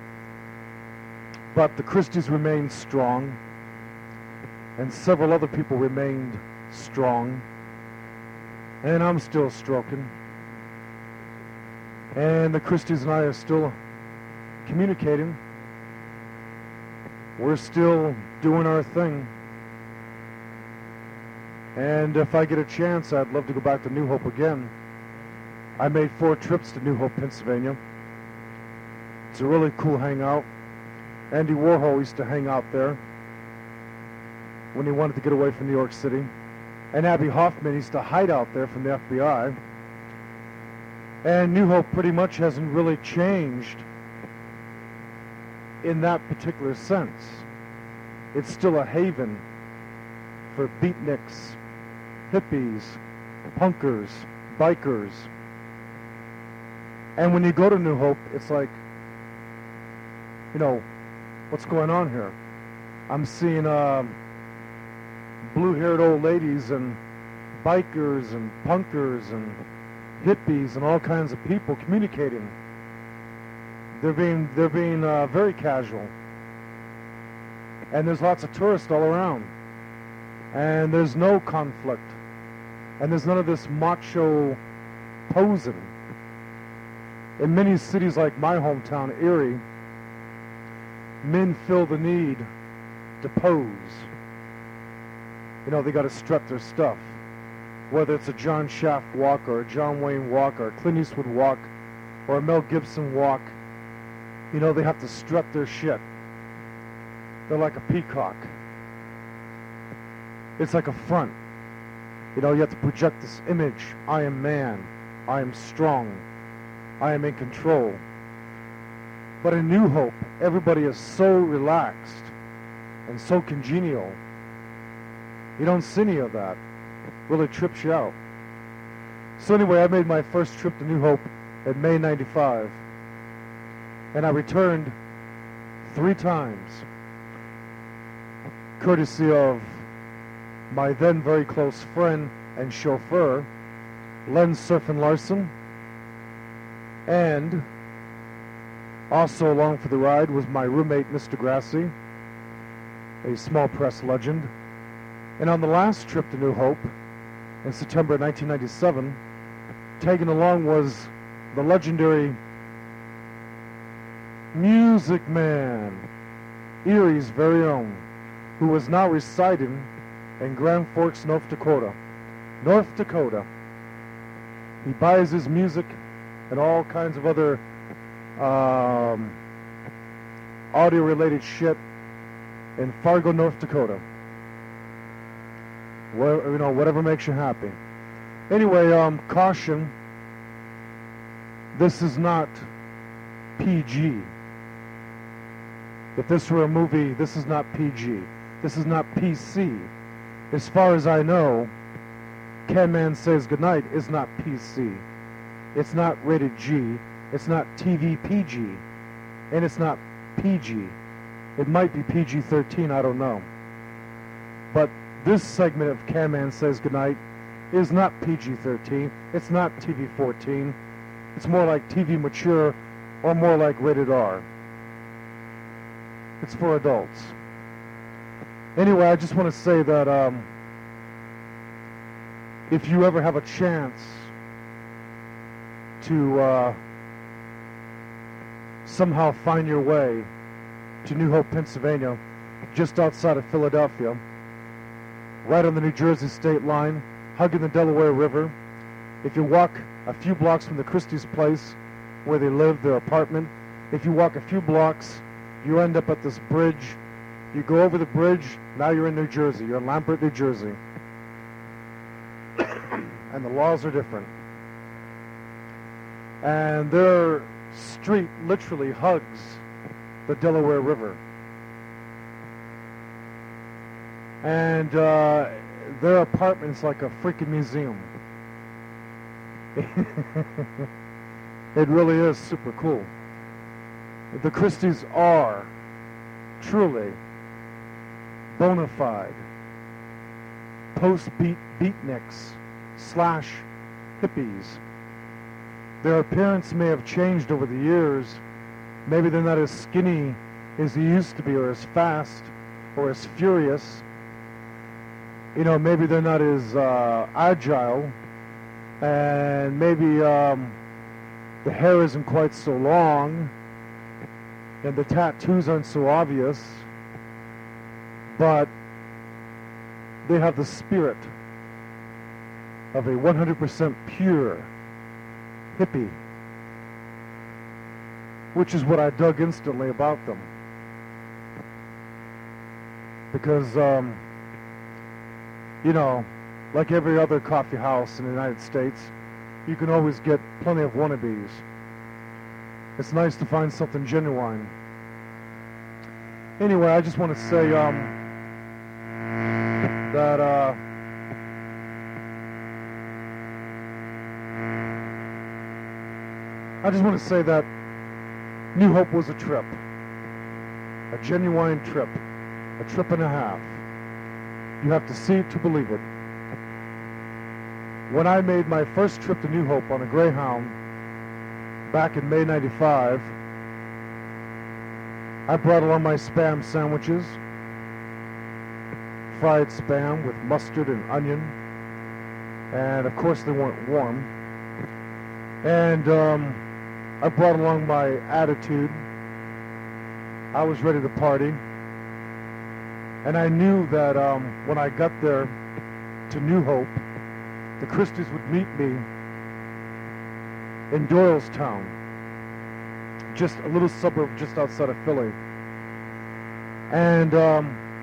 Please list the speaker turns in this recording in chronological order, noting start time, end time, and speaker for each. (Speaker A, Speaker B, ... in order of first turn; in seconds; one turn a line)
Speaker A: 1.5-3.4
Speaker A: 4.8-7.4
Speaker A: 8.8-10.1
Speaker A: 12.1-13.8
Speaker A: 14.6-15.4
Speaker A: 17.4-19.3
Speaker A: 21.7-24.7
Speaker A: 25.8-27.8
Speaker A: 29.3-30.5
Speaker A: 31.3-33.0
Speaker A: 34.7-36.3
Speaker A: 36.9-39.6
Speaker A: 41.2-43.8
Speaker A: 45.8-47.4
Speaker A: 48.3-49.4
Speaker A: 50.5-51.6
Speaker A: 52.3-53.0
Speaker A: 53.5-55.3
Speaker A: 57.2-58.8
Speaker A: 60.5-60.9
Speaker A: 61.5-62.3
Speaker A: 63.1-64.2
Speaker A: 65.4-67.0
Speaker A: 67.6-69.6
Speaker A: 70.2-72.5
Speaker A: 73.9-76.1
Speaker A: 77.9-79.5
Speaker A: 80.5-82.2
Speaker A: 83.0-84.6
Speaker A: 85.3-85.9
Speaker A: 87.4-89.6
Speaker A: 91.2-92.5
Speaker A: 93.2-94.1
Speaker A: 95.6-97.1
Speaker A: 97.9-101.7
Speaker A: 102.3-103.5
Speaker A: 104.5-106.0
Speaker A: 107.5-108.5
Speaker A: 110.6-111.4
Speaker A: 112.3-116.2
Speaker A: 117.0-118.0
Speaker A: 119.4-122.3
Speaker A: 123.0-124.2
Speaker A: 125.6-126.6
Speaker A: 127.3-128.2
Speaker A: 129.4-132.8
Speaker A: 134.1-134.9
Speaker A: 135.8-136.9
Speaker A: 138.8-139.8
Speaker A: 140.7-143.5
Speaker A: 144.2-145.5
Speaker A: 147.1-147.6
Speaker A: 149.1-151.9
Speaker A: 153.2-154.5
Speaker A: 155.4-156.9
Speaker A: 157.6-159.2
Speaker A: 160.0-162.4
Speaker A: 164.5-166.1
Speaker A: 166.8-168.0
Speaker A: 168.6-172.0
Speaker A: 172.6-173.5
Speaker A: 174.8-176.0
Speaker A: 176.5-177.6
Speaker A: 178.4-179.4
Speaker A: 180.7-181.8
Speaker A: 182.8-184.0
Speaker A: 186.1-187.8
Speaker A: 188.5-189.9
Speaker A: 191.7-192.7
Speaker A: 193.6-194.3
Speaker A: 196.2-199.9
Speaker A: 200.5-201.7
Speaker A: 202.7-205.0
Speaker A: 205.7-208.8
Speaker A: 209.5-210.9
Speaker A: 211.6-213.5
Speaker A: 214.7-217.2
Speaker A: 217.7-220.8
Speaker A: 221.3-224.4
Speaker A: 226.4-227.3
Speaker A: 228.8-230.5
Speaker A: 232.7-234.3
Speaker A: 236.0-236.8
Speaker A: 238.8-240.3
Speaker A: 241.0-244.2
Speaker A: 245.4-248.5
Speaker A: 249.2-257.0
Speaker A: 257.5-260.8
Speaker A: 263.2-264.3
Speaker A: 266.4-269.6
Speaker A: 270.2-271.2
Speaker A: 274.4-278.1
Speaker A: 279.7-280.9
Speaker A: 281.7-283.1
Speaker A: 284.3-285.7
Speaker A: 286.6-287.2
Speaker A: 288.5-289.4
Speaker A: 290.9-293.6
Speaker A: 294.2-294.8
Speaker A: 296.0-298.4
Speaker A: 299.1-304.0
Speaker A: 305.5-308.1
Speaker A: 309.0-310.8
Speaker A: 311.6-313.5
Speaker A: 314.8-316.9
Speaker A: 318.3-318.7
Speaker A: 320.2-321.3
Speaker A: 322.9-324.7
Speaker A: 325.7-326.2
Speaker A: 328.5-330.5
Speaker A: 333.3-334.2
Speaker A: 335.8-339.1
Speaker A: 339.6-341.6
Speaker A: 343.0-344.7
Speaker A: 346.6-348.1
Speaker A: 350.1-350.8
Speaker A: 356.8-357.7
Speaker A: 358.7-359.8
Speaker A: 361.1-362.2
Speaker A: 362.8-363.8
Speaker A: 364.8-366.0
Speaker A: 368.1-370.8
Speaker A: 371.9-373.3
Speaker A: 375.5-377.4
Speaker A: 379.3-381.5
Speaker A: 382.7-384.3
Speaker A: 385.6-386.6
Speaker A: 387.2-389.0
Speaker A: 390.5-391.6
Speaker A: 393.2-395.5
Speaker A: 396.3-397.0
Speaker A: 397.8-399.1
Speaker A: 400.9-401.9
Speaker A: 403.3-405.4
Speaker A: 406.9-407.8